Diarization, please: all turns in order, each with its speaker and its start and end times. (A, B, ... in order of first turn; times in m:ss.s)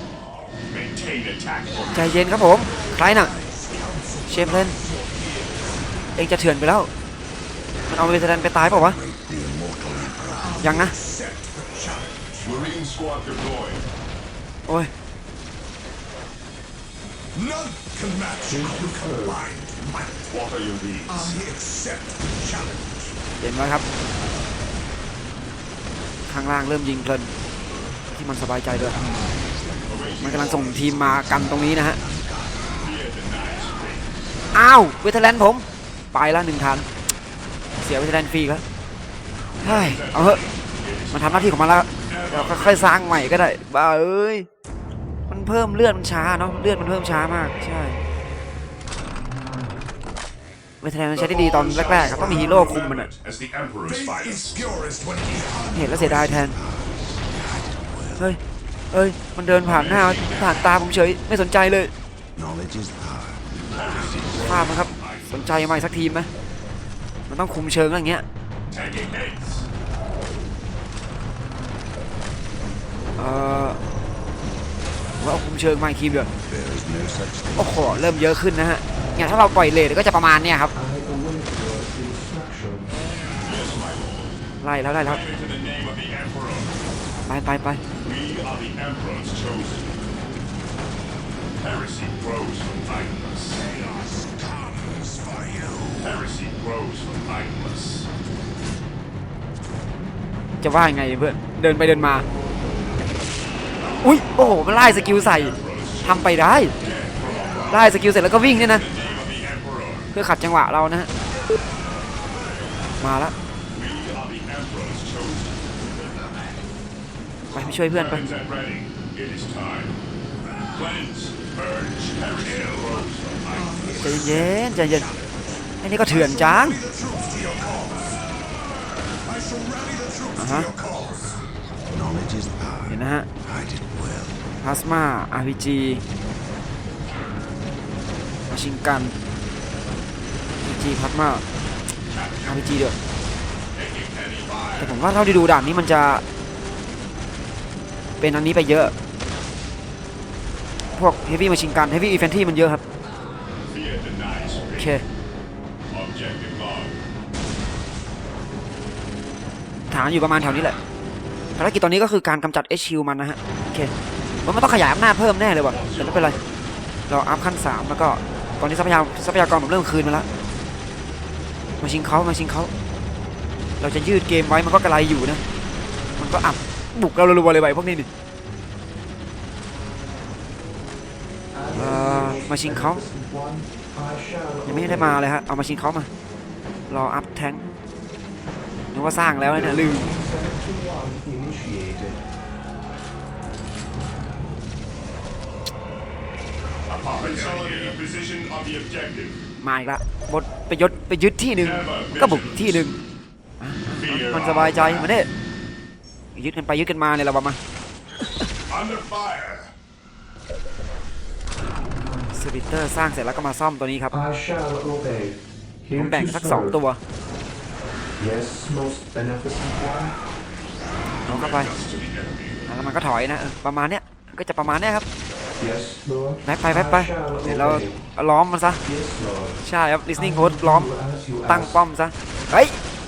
0:00.7-0:02.1 A
0:01.8-0:06.0 B
0:02.0-0:03.3 C
0:04.3-0:04.8 C
0:06.2-0:06.9 C
0:07.9-0:09.0 C
0:08.6-0:10.7 D
0:10.4-0:12.6 B
0:10.6-0:10.9 C
0:12.4-0:13.8 A
0:17.3-0:20.4 B
0:18.5-0:19.4 E
0:20.3-0:21.3 A
0:21.1-0:23.2 B
0:23.4-0:23.8 C
0:26.3-0:27.3 C
0:28.1-0:29.0 C
0:28.7-0:33.0 D
0:29.9-0:30.9 A
0:30.2-0:32.0 C
0:32.8-0:34.2 A
0:34.5-0:36.9 C
0:37.8-0:38.6 C
0:39.6-0:43.3 A
0:39.6-0:40.4 C
0:41.1-0:44.5 C
0:45.3-0:48.0 C
0:50.8-0:53.1 C
0:51.2-0:54.6 A
0:51.7-0:52.9 B
0:53.8-0:56.2 B
0:55.8-0:56.6 C
0:55.8-0:58.3 D
0:58.9-1:01.9 C
0:59.6-1:00.9 A
1:02.4-1:04.5 D
1:03.7-1:05.5 A
1:04.4-1:06.3 C
1:07.3-1:08.2 C
1:08.7-1:09.7 A
1:13.2-1:13.8 C
1:15.2-1:16.3 C
1:16.4-1:18.4 D
1:17.6-1:20.7 C
1:20.7-1:23.1 E
1:23.3-1:24.3 A
1:24.6-1:25.2 C
1:25.0-1:26.7 A
1:27.3-1:27.8 C
1:28.0-1:30.0 A
1:31.6-1:33.7 A
1:33.6-1:36.2 B
1:36.0-1:38.1 A
1:40.6-1:42.3 C
1:43.8-1:50.1 A
1:44.0-1:46.8 C
1:47.7-1:48.8 C
1:50.1-1:51.1 C
1:52.2-1:52.9 A
1:53.0-1:53.3 C
1:53.7-1:55.7 A
1:57.5-1:58.3 C
1:57.8-2:00.0 A
2:00.7-2:04.4 A
2:02.3-2:08.3 B
2:04.0-2:05.1 C
2:05.8-2:06.8 C
2:09.2-2:11.4 B
2:10.4-2:10.7 C
2:11.9-2:14.4 D
2:12.9-2:13.3 C
2:14.6-2:16.0 C
2:18.5-2:19.2 C
2:20.6-2:21.4 C
2:22.1-2:22.7 A
2:22.4-2:23.0 C
2:23.7-2:25.0 A
2:24.8-2:26.2 C
2:28.2-2:28.9 C
2:30.9-2:32.8 C
2:33.7-2:35.0 A
2:34.8-2:35.0 C
2:35.9-2:37.0 A
2:39.9-2:40.8 C
2:41.6-2:43.9 C
2:44.4-2:46.4 C
2:45.7-2:46.5 A
2:47.1-2:50.3 C
2:51.8-2:52.7 C
2:53.8-2:55.4 C
2:56.2-2:58.1 C
3:01.5-3:05.2 E
3:01.7-3:03.0 C
3:04.7-3:06.1 C
3:06.9-3:07.6 C
3:08.9-3:10.1 C
3:09.4-3:12.2 E
3:16.9-3:19.4 A
3:19.6-3:23.0 C
3:21.6-3:22.9 A
3:23.6-3:25.3 C
3:24.0-3:25.2 A
3:26.4-3:27.6 C
3:28.7-3:29.7 A
3:32.3-3:34.2 C
3:34.1-3:36.8 E
3:36.0-3:37.0 C
3:38.2-3:40.2 E
3:41.3-3:42.7 A
3:41.3-3:41.7 C
3:42.7-3:45.1 C
3:45.6-3:48.0 E
3:46.4-3:48.8 C
3:48.8-3:49.6 E
3:49.6-3:50.9 C
3:50.2-3:51.8 E
3:51.5-3:52.8 C